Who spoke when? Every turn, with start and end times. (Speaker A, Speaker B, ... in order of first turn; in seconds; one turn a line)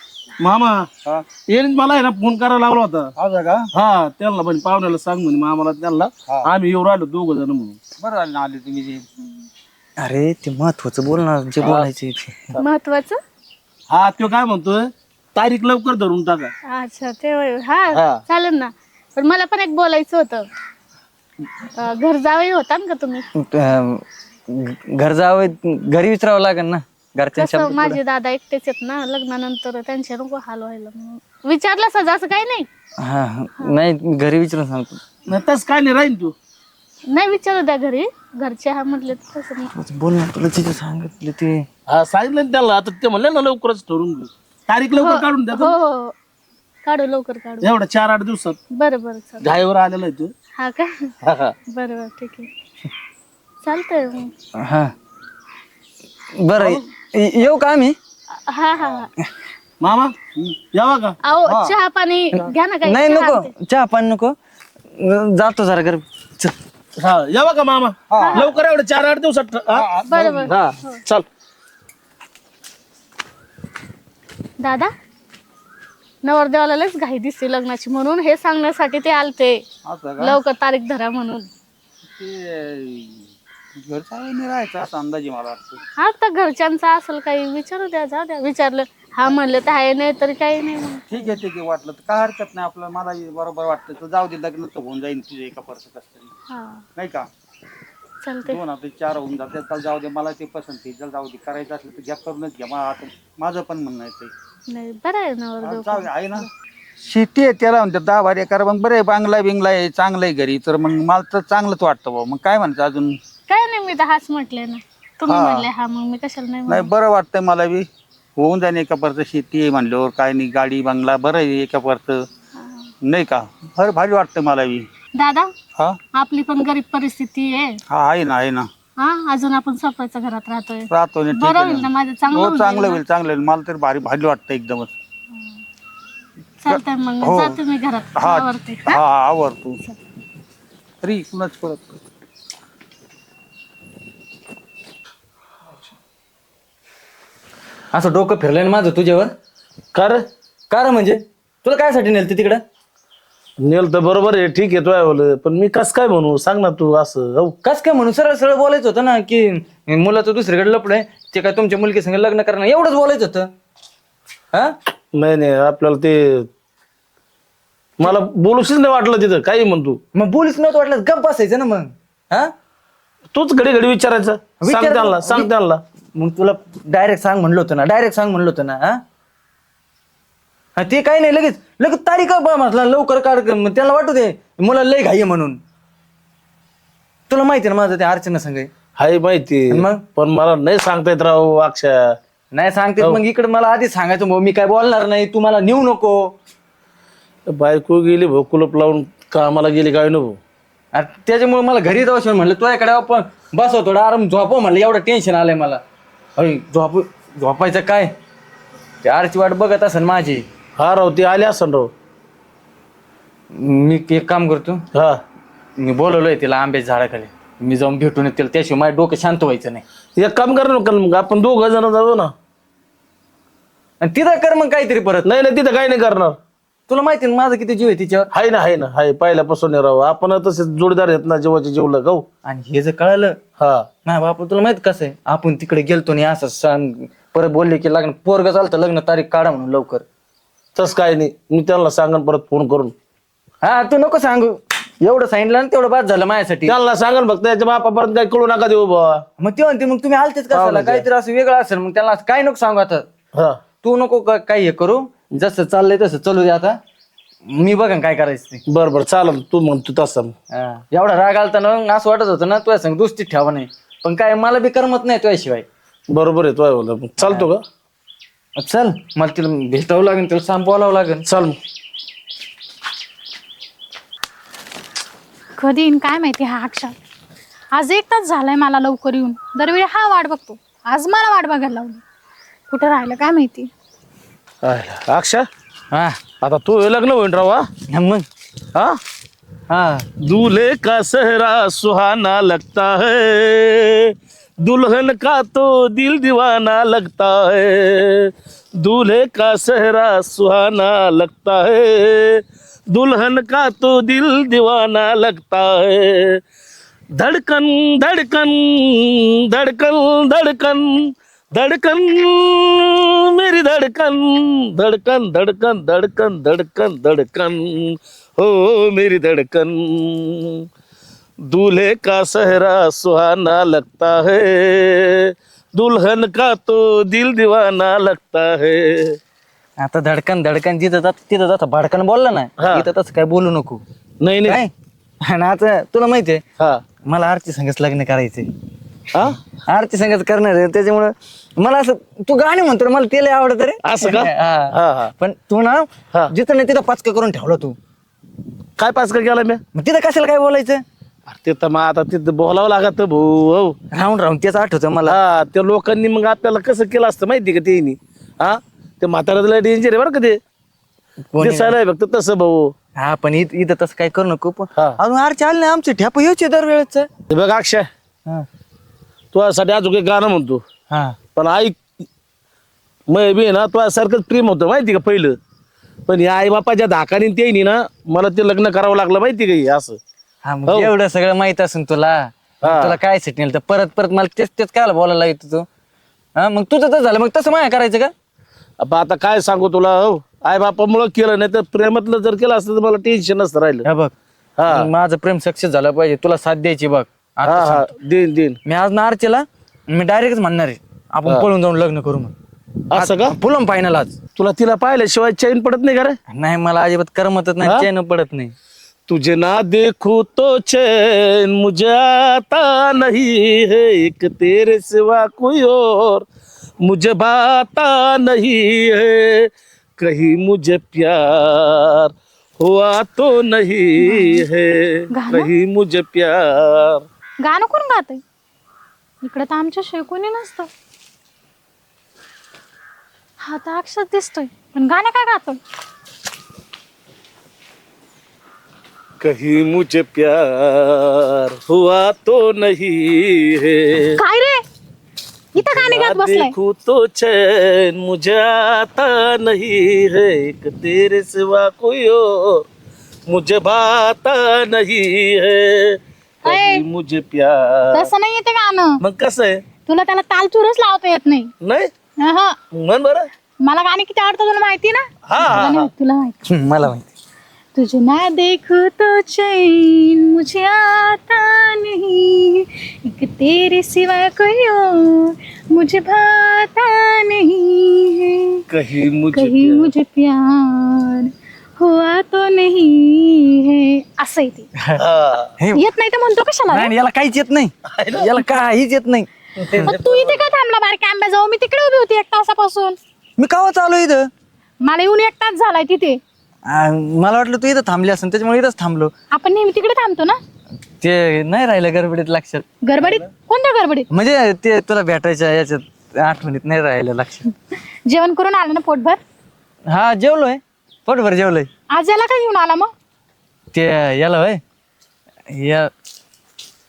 Speaker A: 0.4-0.9
Speaker A: 1.5-3.1
Speaker B: 3.1-3.7
Speaker A: 3.7-7.8
Speaker B: 8.0-9.0
Speaker C: 10.0-12.3
Speaker A: 11.6-11.9
Speaker D: 12.6-13.2
Speaker A: 13.9-16.5
Speaker D: 16.7-20.4
Speaker A: 17.9-18.2
Speaker D: 21.8-23.2
Speaker C: 23.4-28.0
Speaker D: 27.4-32.7
Speaker C: 33.0-35.0
Speaker A: 35.3-36.3
Speaker D: 37.1-39.7
Speaker C: 39.7-41.7
Speaker A: 41.9-45.7
Speaker D: 44.9-46.1
Speaker D: 46.8-47.7
Speaker A: 47.6-48.6
Speaker D: 48.7-49.5
Speaker A: 49.4-50.3
Speaker D: 50.5-51.0
Speaker A: 51.2-51.5
Speaker D: 51.7-52.5
Speaker D: 53.6-54.3
Speaker C: 54.6-54.9
Speaker C: 56.4-58.0
Speaker D: 58.5-59.1
Speaker A: 59.8-60.1
Speaker A: 60.7-61.1
Speaker D: 61.2-63.5
Speaker B: 61.5-61.7
Speaker C: 62.8-64.3
Speaker C: 65.0-66.5
Speaker A: 67.0-69.8
Speaker B: 68.1-68.5
Speaker D: 68.2-68.5
Speaker B: 69.7-70.5
Speaker D: 70.1-70.9
Speaker A: 70.5-71.2
Speaker D: 74.6-74.9
Speaker D: 76.2-79.6
Speaker B: 79.8-80.4
Speaker D: 80.2-81.5
Speaker B: 82.2-83.3
Speaker B: 83.8-85.8
Speaker D: 86.0-91.3
Speaker B: 91.1-96.3
Speaker D: 96.5-96.8
Speaker B: 97.0-97.3
Speaker D: 98.2-98.6
Speaker B: 98.4-104.3
Speaker D: 104.7-106.5
Speaker B: 105.6-106.5
Speaker B: 107.0-113.2
Speaker D: 113.5-116.9
Speaker B: 115.3-115.7
Speaker B: 116.7-122.3
Speaker B: 123.0-124.8
Speaker D: 125.1-125.5
Speaker D: 126.1-127.8
Speaker B: 127.9-128.7
Speaker D: 129.0-133.0
Speaker B: 130.9-134.9
Speaker D: 136.6-139.0
Speaker B: 136.7-137.6
Speaker B: 138.2-139.8
Speaker B: 141.0-142.0
Speaker C: 147.9-149.3
Speaker A: 149.9-150.2
Speaker C: 150.7-152.6
Speaker A: 153.6-157.5
Speaker C: 157.6-163.5
Speaker A: 165.1-166.5
Speaker A: 168.0-170.0
Speaker C: 170.1-172.5
Speaker A: 173.3-175.8
Speaker C: 174.6-175.5
Speaker C: 176.1-179.0
Speaker C: 180.8-185.6
Speaker C: 187.3-188.7
Speaker A: 189.0-192.1
Speaker C: 189.7-190.1
Speaker C: 192.5-196.3
Speaker A: 197.5-200.4
Speaker C: 200.9-205.8
Speaker C: 206.4-208.1
Speaker C: 209.0-210.4
Speaker A: 210.8-211.9
Speaker C: 213.5-214.8
Speaker A: 214.9-215.2
Speaker C: 215.8-219.8
Speaker A: 220.2-222.3
Speaker C: 224.0-225.3
Speaker A: 225.2-226.4
Speaker C: 226.9-228.3
Speaker A: 228.3-232.2
Speaker C: 232.4-233.4
Speaker A: 233.6-233.9
Speaker C: 234.0-240.0
Speaker A: 240.7-242.9
Speaker C: 243.6-246.7
Speaker A: 246.7-249.2
Speaker C: 249.4-253.1
Speaker A: 250.5-251.1
Speaker A: 253.3-253.6
Speaker C: 253.8-256.8
Speaker C: 257.5-258.6
Speaker A: 258.7-260.3
Speaker C: 260.5-265.6
Speaker A: 266.1-267.6
Speaker C: 267.2-267.5
Speaker C: 268.6-271.2
Speaker A: 271.2-271.6
Speaker E: 275.6-276.9
Speaker E: 277.7-282.0
Speaker E: 282.7-283.7
Speaker A: 284.6-285.4
Speaker C: 285.9-286.2
Speaker A: 286.4-287.6
Speaker C: 287.9-288.2
Speaker C: 289.7-290.1
Speaker A: 290.2-306.4
Speaker A: 307.1-320.6
Speaker A: 321.5-329.2
Speaker C: 329.8-333.8
Speaker A: 332.6-332.9
Speaker A: 334.2-334.6
Speaker C: 334.4-334.7
Speaker C: 335.2-336.4
Speaker C: 337.0-338.5
Speaker A: 339.1-339.4
Speaker C: 339.6-347.8
Speaker A: 343.8-345.1
Speaker A: 348.8-349.6
Speaker C: 349.7-350.8
Speaker A: 351.3-353.8
Speaker C: 353.9-355.2
Speaker A: 355.0-360.4
Speaker C: 361.2-361.8
Speaker A: 361.4-362.7
Speaker C: 362.9-367.1
Speaker A: 367.3-367.9
Speaker A: 369.3-370.6
Speaker C: 370.9-371.2
Speaker A: 371.3-371.8
Speaker A: 373.1-375.4
Speaker A: 376.1-380.0
Speaker C: 380.4-385.7
Speaker A: 382.6-383.0
Speaker C: 386.4-388.1
Speaker A: 388.8-393.9
Speaker C: 393.8-394.1
Speaker A: 394.6-394.9
Speaker C: 394.7-397.9
Speaker A: 397.4-398.6
Speaker C: 398.6-402.3
Speaker A: 402.9-403.4
Speaker C: 402.9-404.2
Speaker A: 404.4-406.2
Speaker C: 406.3-408.5
Speaker A: 407.6-407.9
Speaker A: 409.1-416.2
Speaker A: 416.8-427.0
Speaker E: 424.0-424.4
Speaker E: 425.1-425.5
Speaker E: 427.4-428.2
Speaker E: 429.2-430.7
Speaker E: 433.4-435.6
Speaker A: 439.2-444.1
Speaker E: 444.1-444.6
Speaker E: 445.5-446.5
Speaker A: 445.6-452.6
Speaker A: 453.3-458.1
Speaker E: 456.4-456.8
Speaker E: 457.9-459.0
Speaker A: 459.0-459.6
Speaker E: 459.9-461.5
Speaker A: 461.6-461.9
Speaker E: 462.2-462.6
Speaker A: 462.7-463.3
Speaker E: 463.6-466.4
Speaker A: 465.3-465.9
Speaker C: 466.5-467.0
Speaker E: 467.7-478.6
Speaker A: 478.7-479.9
Speaker E: 479.3-484.7
Speaker A: 485.0-485.5
Speaker E: 485.7-486.9
Speaker C: 486.7-489.9
Speaker A: 487.9-488.4
Speaker A: 489.6-490.4
Speaker E: 489.8-493.0
Speaker C: 493.4-494.3
Speaker E: 494.8-496.2
Speaker C: 496.7-499.1
Speaker E: 499.3-500.4
Speaker C: 501.0-502.6
Speaker E: 502.8-504.1
Speaker C: 504.1-507.4
Speaker E: 507.7-509.2
Speaker C: 509.9-511.7
Speaker E: 511.9-512.9
Speaker C: 513.7-514.6
Speaker C: 515.5-515.9